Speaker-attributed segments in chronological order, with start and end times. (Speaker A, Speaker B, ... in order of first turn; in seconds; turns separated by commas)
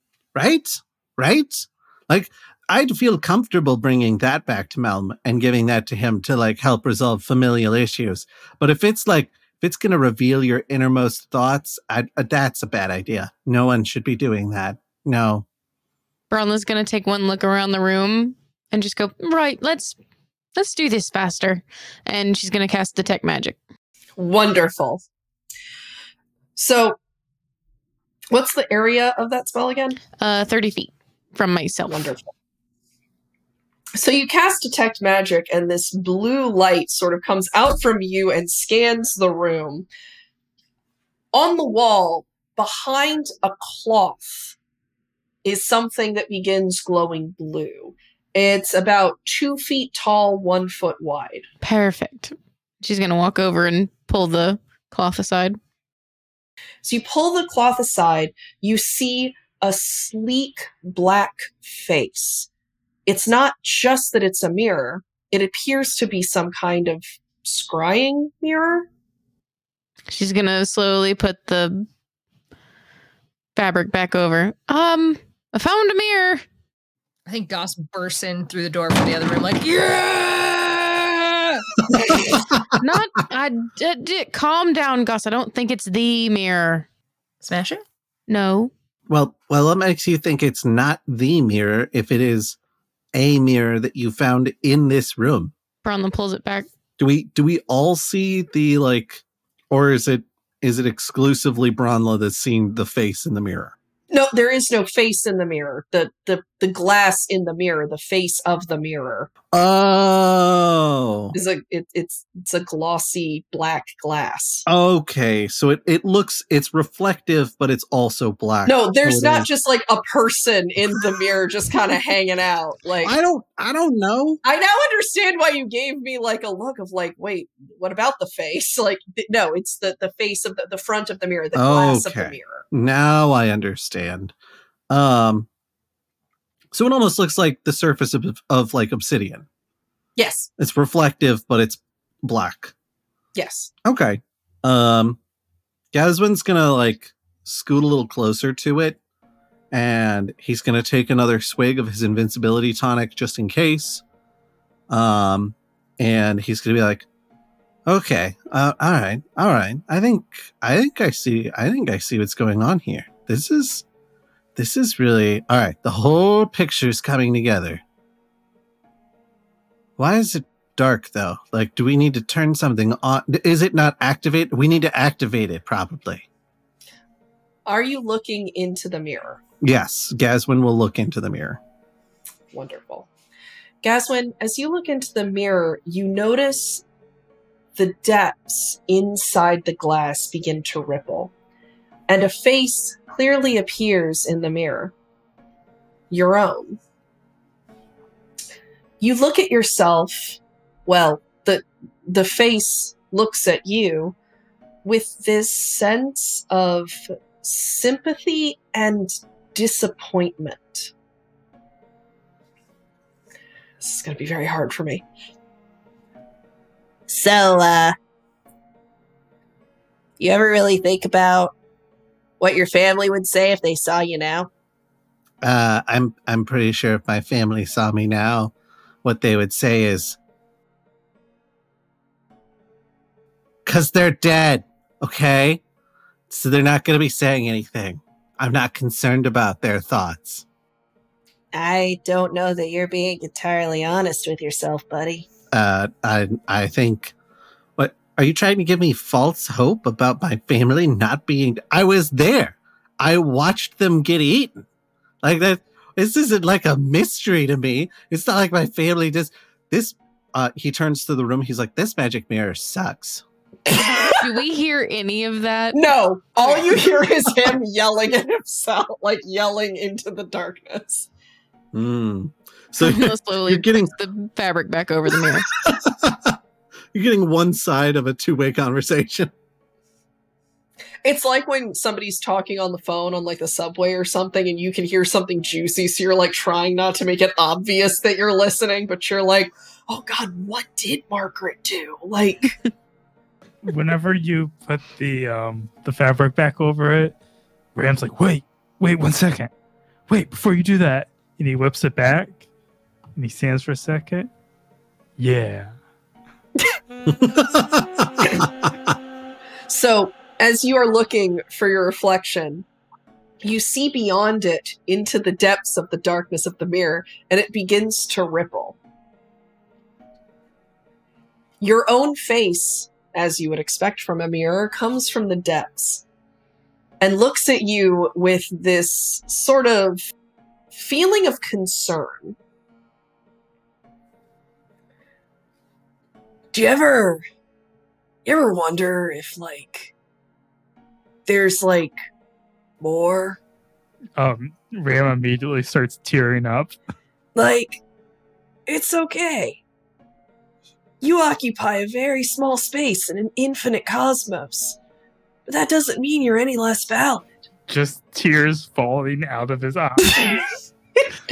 Speaker A: 0.3-15.5, Speaker B: 16.3-20.0, Speaker B: 20.6-23.6, Speaker C: 24.2-25.0, Speaker C: 26.6-27.0, Speaker C: 28.3-30.0, Speaker B: 30.2-32.1, Speaker C: 31.9-32.3, Speaker C: 34.0-39.9, Speaker C: 41.3-44.5, Speaker C: 45.4-51.5, Speaker B: 51.6-55.6, Speaker C: 56.8-62.5, Speaker C: 63.1-68.9, Speaker B: 70.1-71.9, Speaker B: 73.6-76.4, Speaker D: 77.3-81.7, Speaker B: 82.8-86.9, Speaker D: 87.4-87.8, Speaker B: 88.3-88.7, Speaker A: 89.1-92.6, Speaker A: 93.1-95.5, Speaker B: 95.8-96.7, Speaker A: 97.0-103.8, Speaker C: 104.1-109.3, Speaker A: 109.5-111.4, Speaker C: 111.3-114.7, Speaker A: 114.7-119.5, Speaker C: 118.7-123.1, Speaker A: 123.0-124.4, Speaker C: 124.4-132.6, Speaker A: 131.6-134.3, Speaker A: 134.9-135.5, Speaker A: 136.7-139.5, Speaker C: 140.2-140.5, Speaker A: 140.6-142.7, Speaker C: 143.3-143.7, Speaker A: 143.8-145.2, Speaker A: 145.9-149.0, Speaker A: 149.7-154.0, Speaker A: 154.9-157.1, Speaker A: 157.9-163.8, Speaker A: 164.6-167.8, Speaker A: 170.0-176.3, Speaker C: 177.7-179.4, Speaker A: 179.6-181.6, Speaker C: 182.5-183.1, Speaker C: 183.8-186.8, Speaker C: 187.8-191.3, Speaker C: 192.1-194.9, Speaker C: 196.1-196.8, Speaker C: 199.0-204.2, Speaker C: 204.8-210.9, Speaker C: 213.8-215.0, Speaker C: 217.1-217.9, Speaker C: 220.2-221.5, Speaker C: 222.4-224.5, Speaker A: 225.4-228.5, Speaker A: 229.0-230.2, Speaker A: 233.7-235.6, Speaker A: 236.3-240.4, Speaker C: 241.5-245.3, Speaker A: 245.5-247.1, Speaker A: 247.8-254.7, Speaker A: 255.2-263.2, Speaker C: 263.7-264.2, Speaker B: 264.2-265.8, Speaker C: 265.7-271.1, Speaker A: 271.7-273.9, Speaker B: 272.8-275.5, Speaker A: 275.6-276.4, Speaker A: 276.9-279.3, Speaker C: 281.1-292.6, Speaker E: 293.6-297.2, Speaker E: 297.8-299.5, Speaker E: 300.1-302.4, Speaker E: 303.2-304.3, Speaker E: 305.2-305.8, Speaker A: 307.2-308.1, Speaker C: 308.2-308.5, Speaker C: 309.7-312.7, Speaker C: 313.4-318.8, Speaker C: 321.6-326.0, Speaker C: 327.0-330.0, Speaker C: 330.7-332.4, Speaker C: 336.5-337.2, Speaker C: 338.3-339.9, Speaker C: 341.3-342.0, Speaker C: 342.8-343.4, Speaker E: 344.2-346.8, Speaker C: 347.4-347.8, Speaker C: 348.7-349.6, Speaker C: 351.0-354.8, Speaker C: 355.5-357.3, Speaker E: 357.7-360.6, Speaker C: 360.1-360.3